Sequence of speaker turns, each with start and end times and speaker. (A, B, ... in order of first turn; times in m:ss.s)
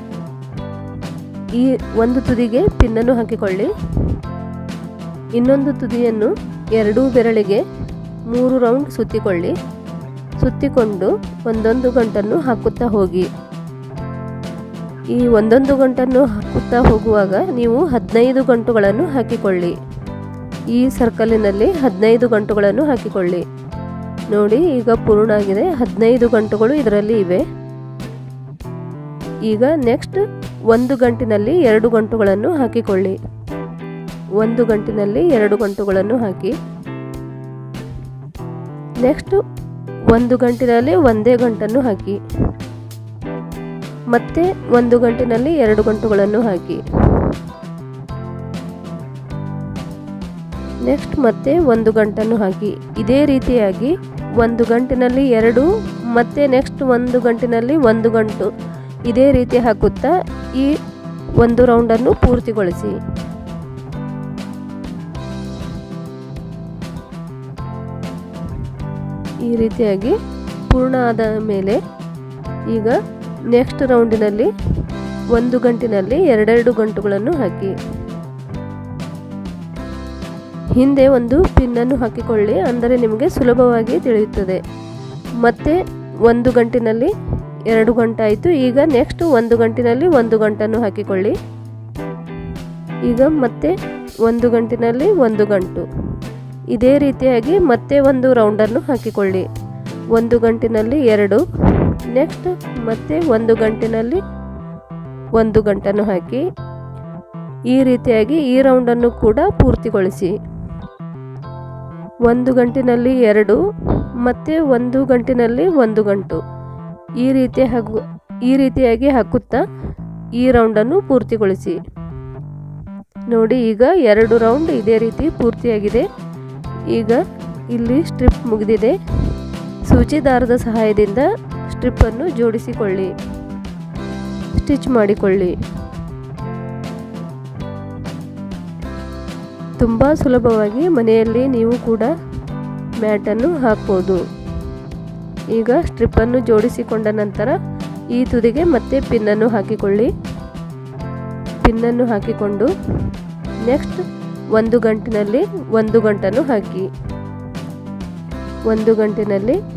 0:01.5-0:04.1 A
0:05.4-0:07.6 A
0:08.3-0:09.5 A
0:10.4-0:13.3 A
0:15.1-0:19.8 A
0:20.7-0:23.4 A
0:24.3-0:27.4 A
0:29.5-0:33.2 A
0:34.4-0:36.6 A
0:39.0-0:39.4 A
0:40.1-0:42.2 A
0:44.1-0:47.3 A
0:50.8-0:58.5 A
0:59.1-1:00.8 A
1:01.4-1:03.0 A
1:09.4-1:11.8 A
1:12.7-1:13.0 A
1:13.5-1:14.5 A
1:15.3-1:17.8 A
1:20.8-1:24.6 A
1:25.4-1:27.1 A
1:27.7-1:31.4 A
1:33.1-1:35.9 A
1:36.7-1:39.4 A
1:40.1-1:44.2 A
1:45.4-1:46.4 A
1:47.7-1:50.3 A
1:52.3-1:53.6 A
1:54.2-1:56.4 A
1:57.2-1:59.6 A
2:00.4-2:01.8 A
2:03.3-2:06.1 A
2:06.9-2:09.0 A
2:09.9-2:13.1 A
2:14.5-2:15.5 A
2:19.8-2:22.1 A
2:23.0-2:24.2 A
2:25.5-2:27.5 A
2:28.1-2:30.1 A
2:31.6-2:32.7 A
2:33.7-2:34.0 A
2:34.5-2:36.9 A
2:38.7-2:39.6 A